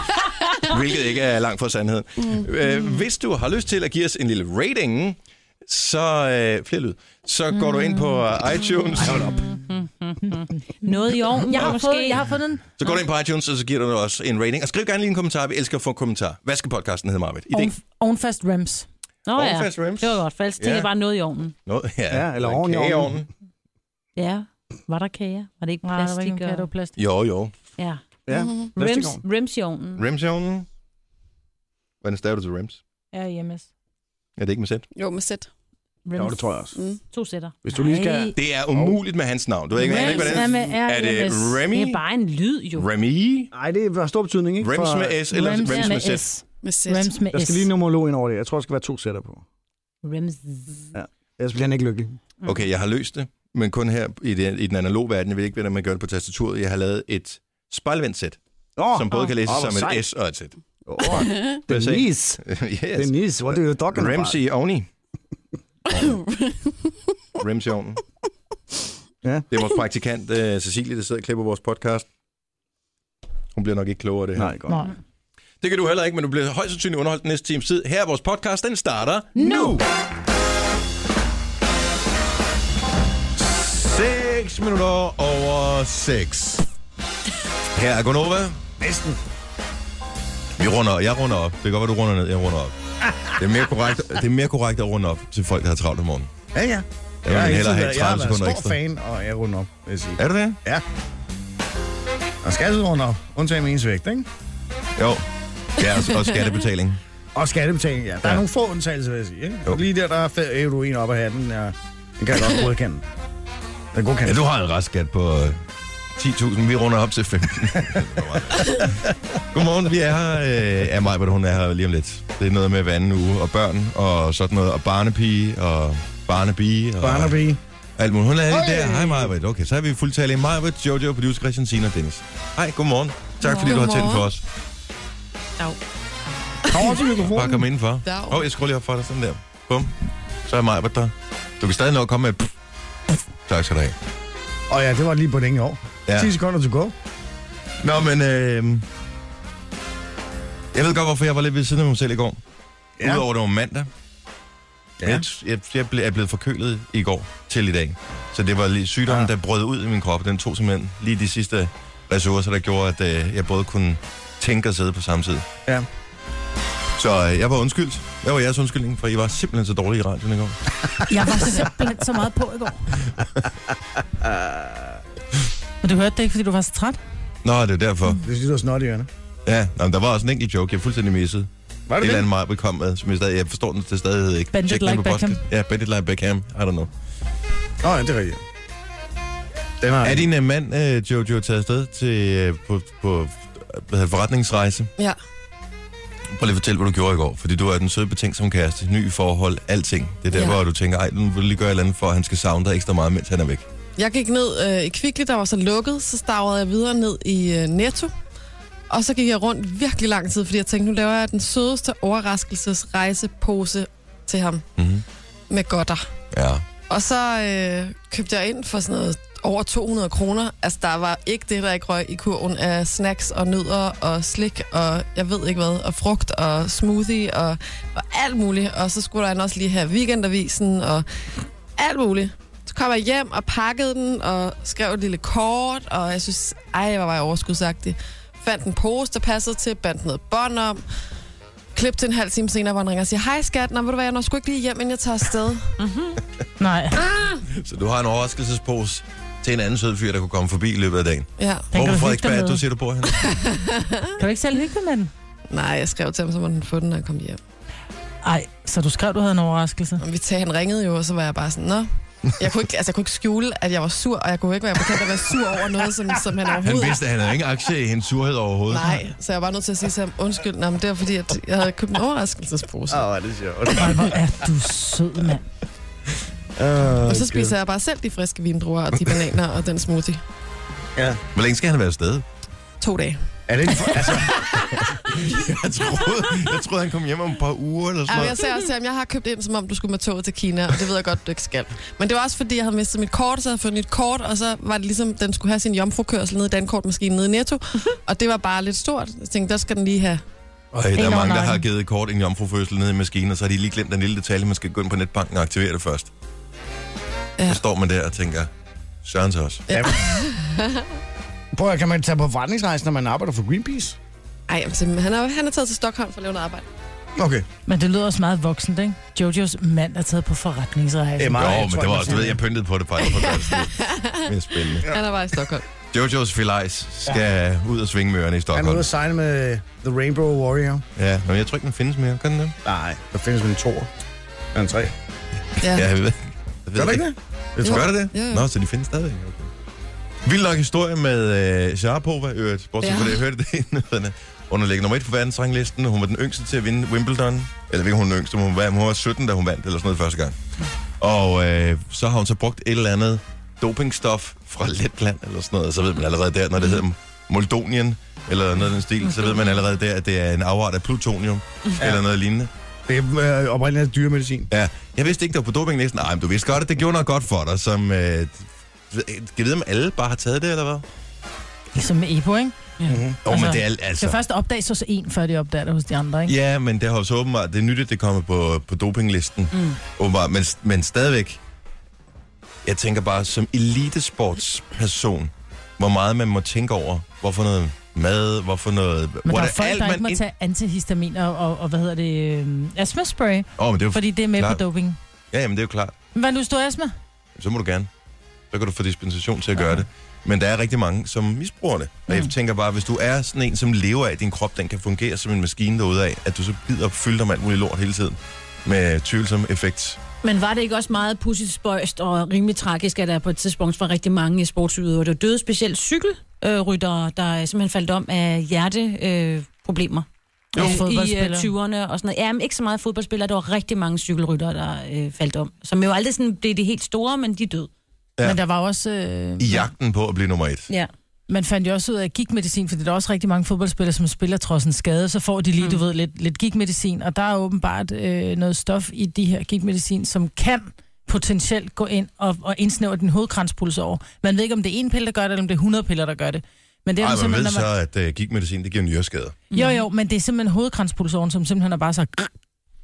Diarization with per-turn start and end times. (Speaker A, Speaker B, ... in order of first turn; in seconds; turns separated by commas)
Speaker A: 0.6-9.3, Speaker B: 9.0-9.5, Speaker C: 9.5-12.2, Speaker D: 11.3-12.7, Speaker A: 12.8-17.7, Speaker D: 17.5-18.9, Speaker C: 19.2-21.5, Speaker A: 19.3-20.2, Speaker B: 20.6-20.9, Speaker A: 21.6-23.3, Speaker B: 22.1-23.2, Speaker C: 24.1-26.7, Speaker D: 25.8-27.0, Speaker A: 27.0-27.5, Speaker B: 28.3-29.2, Speaker E: 28.3-28.7, Speaker C: 28.7-30.0, Speaker A: 29.9-30.7, Speaker A: 32.0-32.8, Speaker D: 33.1-33.7, Speaker A: 34.4-34.9, Speaker E: 35.0-35.5, Speaker C: 36.0-36.4, Speaker B: 36.1-36.8, Speaker C: 37.1-37.5, Speaker B: 37.6-39.0, Speaker D: 37.7-38.3, Speaker A: 38.3-42.0, Speaker D: 39.8-41.6, Speaker C: 39.9-40.4, Speaker C: 41.7-42.9, Speaker A: 42.8-43.5, Speaker B: 43.5-45.2, Speaker A: 44.6-46.2, Speaker D: 45.3-47.7, Speaker E: 46.6-47.1, Speaker B: 47.3-49.4, Speaker C: 50.0-50.8, Speaker B: 50.9-52.1, Speaker A: 52.4-58.4, Speaker B: 58.8-60.0, Speaker A: 58.9-60.5, Speaker B: 60.9-62.4, Speaker E: 61.2-61.6, Speaker A: 61.5-64.9, Speaker B: 63.0-64.4, Speaker E: 66.0-66.7, Speaker A: 67.4-68.0, Speaker A: 69.5-72.0, Speaker A: 73.5-74.5, Speaker B: 74.3-74.8, Speaker D: 74.7-74.9, Speaker A: 75.6-79.6, Speaker B: 79.4-79.8, Speaker A: 83.4-86.6, Speaker A: 87.7-88.6, Speaker B: 88.8-89.2, Speaker A: 90.6-92.7, Speaker B: 93.0-93.4, Speaker A: 93.3-96.3, Speaker B: 96.5-100.8, Speaker A: 97.2-98.8, Speaker A: 100.2-100.6, Speaker B: 102.4-104.3, Speaker A: 105.0-105.2, Speaker A: 105.8-107.0, Speaker B: 107.3-113.0, Speaker B: 113.9-114.4, Speaker A: 114.2-115.6, Speaker A: 116.2-127.4, Speaker B: 118.6-119.0, Speaker B: 127.0-127.6, Speaker A: 128.0-134.4, Speaker B: 128.5-129.3, Speaker E: 133.4-134.3, Speaker B: 136.7-137.7, Speaker A: 137.3-139.9, Speaker E: 138.0-138.4, Speaker A: 140.4-142.5, Speaker A: 143.5-143.9, Speaker B: 144.7-146.9, Speaker A: 147.8-148.8, Speaker A: 150.7-152.4, Speaker B: 153.0-153.2, Speaker A: 153.0-153.9, Speaker A: 155.0-165.5, Speaker A: 166.9-170.7, Speaker D: 171.1-173.0, Speaker B: 174.2-175.0, Speaker D: 175.8-177.0, Speaker A: 177.4-178.2, Speaker B: 178.2-179.1, Speaker A: 179.4-181.5, Speaker B: 181.9-182.3, Speaker A: 182.0-186.9, Speaker D: 184.5-185.4, Speaker B: 187.8-188.4, Speaker B: 189.8-190.3, Speaker A: 190.0-194.9, Speaker A: 196.3-203.6, Speaker E: 200.3-200.6, Speaker E: 204.0-208.1, Speaker E: 208.9-214.7, Speaker A: 214.8-215.0, Speaker E: 215.5-216.1, Speaker A: 216.3-216.6, Speaker E: 216.9-231.1, Speaker E: 231.8-240.8, Speaker E: 241.7-245.7, Speaker C: 245.8-246.2, Speaker D: 246.6-247.0, Speaker A: 247.5-253.2, Speaker E: 251.4-251.7, Speaker D: 251.7-252.6, Speaker E: 253.1-254.2, Speaker D: 254.2-255.1, Speaker E: 255.5-257.4, Speaker D: 258.2-260.0, Speaker E: 260.0-261.9, Speaker E: 262.4-267.3, Speaker A: 266.6-269.0, Speaker E: 268.7-273.0, Speaker B: 272.9-274.2, Speaker D: 273.8-275.4, Speaker B: 276.6-277.6, Speaker E: 277.1-280.2, Speaker B: 280.9-281.2, Speaker A: 281.3-282.2, Speaker E: 282.8-283.2, Speaker B: 283.5-284.3, Speaker A: 283.9-288.4, Speaker E: 288.1-300.2, Speaker A: 300.7-306.1, Speaker D: 301.0-301.6, Speaker A: 307.4-308.5, Speaker A: 309.0-309.6, Speaker E: 309.7-310.9, Speaker B: 309.7-310.1, Speaker B: 311.5-314.0, Speaker E: 314.5-316.6, Speaker B: 317.2-317.5, Speaker D: 317.7-322.3, Speaker B: 321.2-322.4, Speaker A: 321.3-324.9, Speaker E: 323.0-325.6, Speaker A: 325.9-328.9, Speaker B: 328.5-330.9, Speaker A: 330.9-332.6, Speaker B: 332.6-333.9, Speaker B: 334.5-334.9, Speaker E: 335.6-335.9, Speaker A: 335.6-337.1, Speaker B: 336.8-337.9, Speaker A: 337.6-339.5, Speaker E: 337.6-338.5, Speaker A: 340.2-350.4, Speaker E: 342.8-343.2, Speaker A: 351.0-362.5, Speaker C: 359.1-359.5, Speaker B: 362.9-364.5, Speaker A: 364.5-370.8, Speaker D: 371.7-372.5, Speaker B: 372.9-373.2, Speaker A: 373.2-374.2, Speaker D: 373.2-376.3, Speaker A: 376.3-381.4, Speaker C: 379.5-379.8, Speaker A: 382.6-390.2, Speaker D: 389.2-395.0, Speaker A: 393.6-394.6, Speaker A: 395.3-395.9, Speaker D: 396.1-396.9, Speaker A: 397.4-397.9, Speaker A: 398.5-410.0, Speaker C: 410.2-427.7, Speaker D: 420.6-421.5, Speaker D: 428.2-429.7, Speaker A: 429.4-430.7, Speaker D: 431.3-447.7, Speaker A: 447.0-449.4, Speaker C: 449.5-449.8, Speaker D: 449.5-452.3